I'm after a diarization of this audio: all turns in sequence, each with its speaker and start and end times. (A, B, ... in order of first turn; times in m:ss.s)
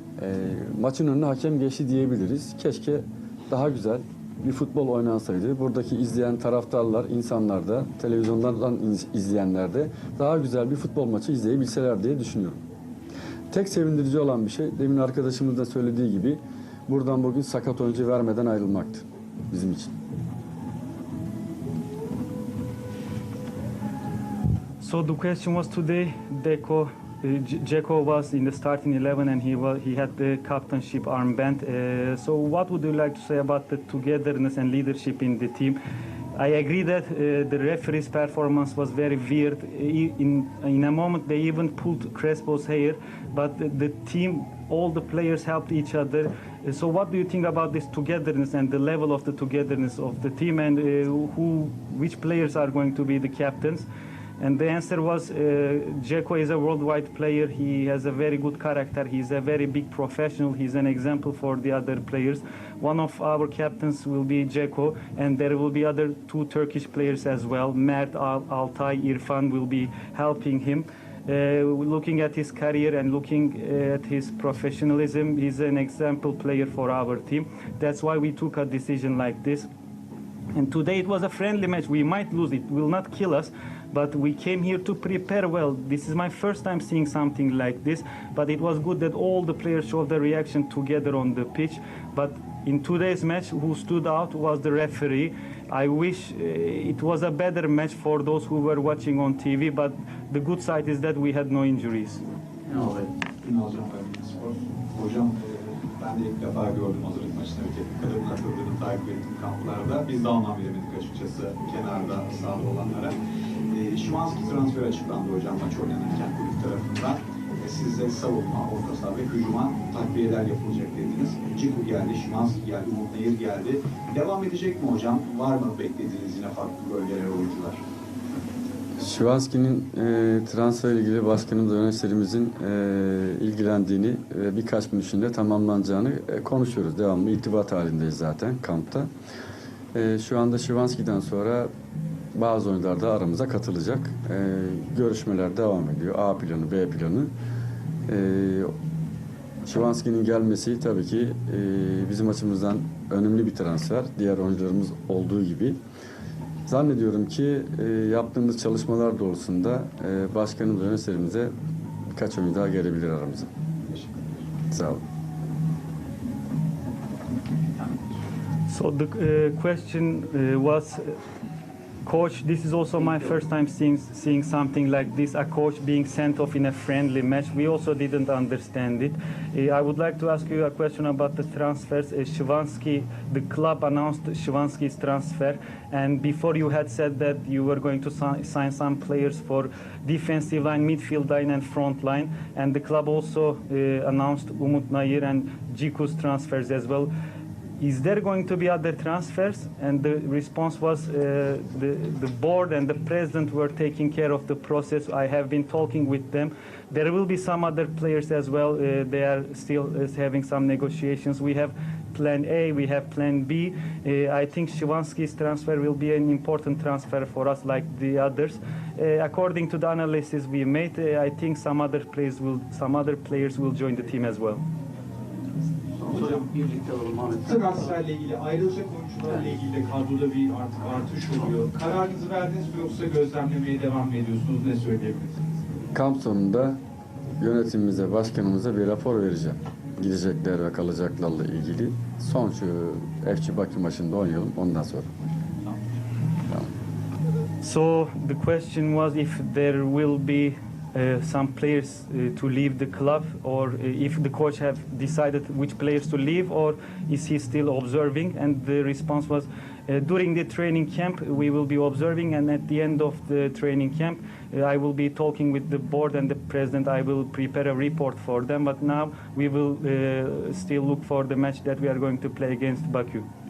0:00.2-0:12.6 A
0:13.5-0:20.0 A
0:24.8-0:35.8 B
0:36.3-0:53.9 B
0:54.4-1:19.7 B
1:20.5-1:42.3 B
1:42.7-1:43.1 C
1:43.4-1:53.2 D
1:53.7-2:07.8 D
2:09.0-2:19.1 A
2:19.9-2:21.7 A
2:22.3-2:27.3 A
2:28.1-2:28.7 A
2:29.7-2:35.8 A
2:36.7-2:41.5 A
2:42.2-2:43.5 A
2:43.9-2:44.4 D
2:44.7-2:45.0 A
2:48.7-2:51.2 B
2:52.0-3:17.1 B
3:17.8-3:44.6 B
3:46.0-3:47.8 C
3:46.1-3:46.4 E
3:47.4-3:55.4 E
3:55.9-3:56.8 A
3:57.4-4:05.1 A
4:07.6-4:33.3 B